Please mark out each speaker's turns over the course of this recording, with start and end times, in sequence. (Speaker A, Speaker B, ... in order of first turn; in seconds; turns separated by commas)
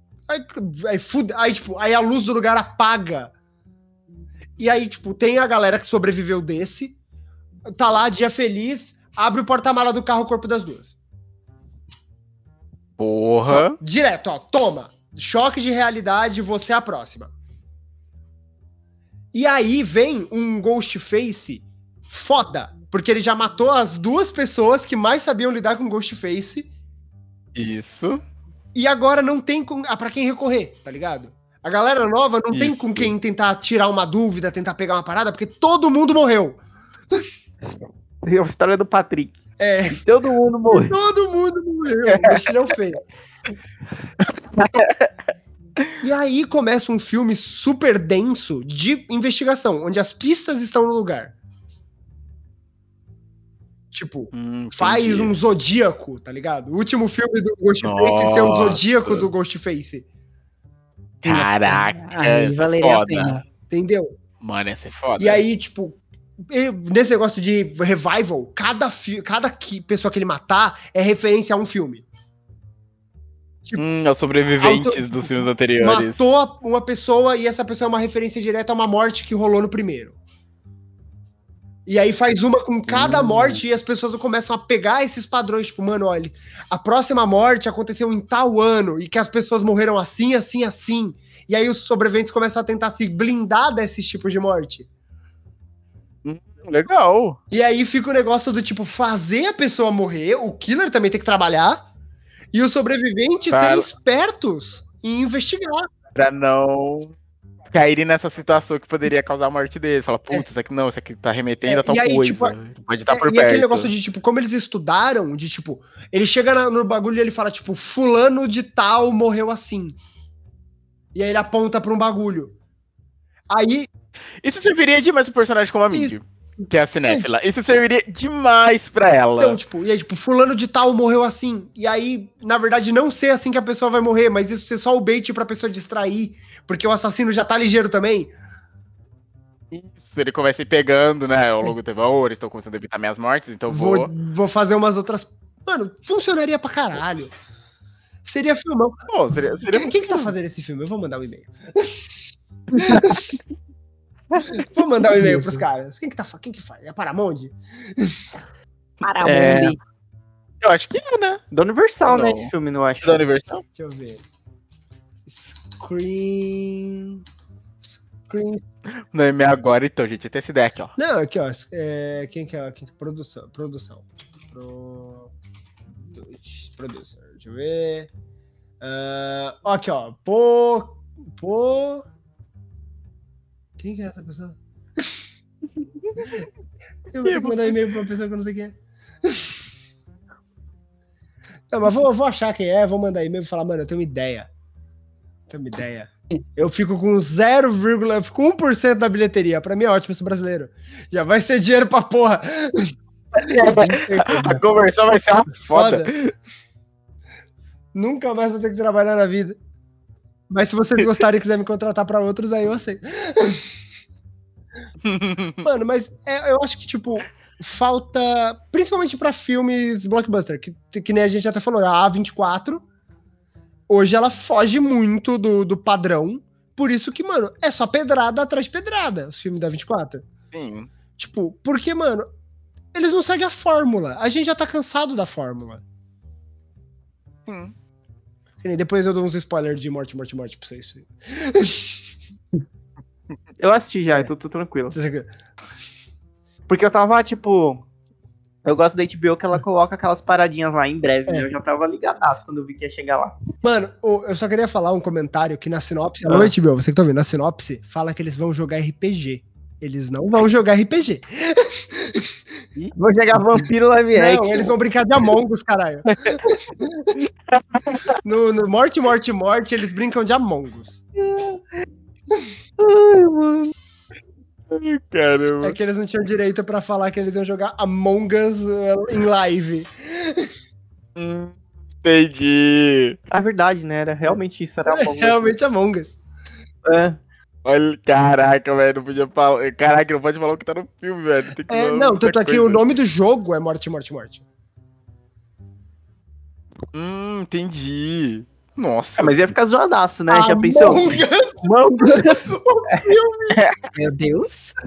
Speaker A: 0.3-3.3, Speaker A: 4.6-7.0, Speaker A: 7.7-10.9, Speaker B: 13.0-13.8, Speaker A: 13.5-17.3, Speaker A: 19.3-26.7, Speaker B: 27.5-28.2, Speaker A: 28.7-36.6, Speaker B: 32.5-33.1, Speaker C: 38.2-39.4, Speaker A: 39.6-40.0, Speaker C: 40.0-40.9, Speaker A: 40.7-43.0, Speaker B: 44.2-45.1, Speaker A: 46.0-51.4, Speaker A: 53.9-60.0, Speaker B: 54.3-55.4, Speaker B: 57.8-59.3, Speaker B: 61.2-63.4, Speaker D: 61.2-63.4, Speaker A: 63.7-64.1, Speaker B: 64.4-65.4, Speaker A: 65.2-72.0, Speaker B: 73.7-76.2, Speaker A: 74.6-80.2, Speaker A: 81.8-94.9, Speaker B: 82.9-83.6, Speaker B: 96.2-97.4, Speaker A: 97.5-101.8, Speaker A: 102.5-105.9, Speaker B: 103.5-103.9, Speaker B: 106.1-107.1, Speaker B: 107.7-113.9, Speaker A: 111.6-112.5, Speaker A: 113.1-120.0, Speaker A: 121.1-122.5, Speaker A: 123.5-123.9, Speaker B: 124.4-129.6, Speaker A: 125.9-126.1, Speaker A: 129.4-138.3, Speaker B: 139.7-144.1, Speaker A: 143.7-147.3, Speaker A: 148.2-149.0, Speaker B: 149.1-150.3, Speaker A: 149.7-152.1, Speaker B: 152.7-153.4, Speaker A: 152.8-153.3, Speaker A: 154.5-158.2, Speaker D: 159.0-159.8, Speaker C: 159.2-159.8, Speaker B: 160.6-161.4, Speaker C: 161.5-163.2, Speaker B: 162.1-163.6, Speaker A: 163.7-164.2, Speaker A: 165.2-167.2, Speaker A: 167.8-168.6, Speaker B: 169.1-170.9, Speaker A: 171.0-175.3, Speaker A: 176.1-178.1, Speaker A: 178.8-182.1, Speaker A: 183.8-185.2, Speaker A: 187.1-189.6, Speaker B: 187.2-187.8, Speaker A: 191.7-194.5, Speaker A: 195.5-202.9, Speaker D: 203.4-204.6, Speaker B: 203.4-206.3, Speaker A: 203.5-204.6, Speaker A: 205.7-206.1, Speaker A: 207.9-209.6, Speaker A: 210.5-213.8, Speaker B: 215.0-215.7, Speaker A: 215.6-222.8, Speaker A: 223.9-230.2, Speaker B: 230.5-230.9, Speaker A: 231.2-232.3, Speaker A: 232.9-235.8, Speaker B: 237.5-237.7, Speaker A: 238.6-242.1, Speaker C: 243.6-244.9, Speaker A: 244.9-245.3, Speaker C: 246.7-247.8, Speaker C: 248.6-253.3, Speaker A: 253.6-262.4, Speaker C: 256.3-256.5, Speaker C: 262.9-264.7, Speaker A: 264.1-267.2, Speaker B: 267.5-268.2, Speaker A: 268.2-271.0, Speaker C: 271.3-271.6, Speaker C: 272.8-273.7, Speaker B: 274.7-275.8, Speaker A: 275.6-280.5, Speaker B: 281.1-283.2, Speaker C: 283.3-285.5, Speaker A: 284.9-286.2, Speaker C: 286.9-287.2, Speaker B: 287.6-292.8, Speaker A: 291.6-294.4, Speaker B: 296.9-299.3, Speaker C: 299.2-303.1, Speaker A: 300.3-303.6, Speaker B: 303.5-303.8, Speaker D: 303.9-304.7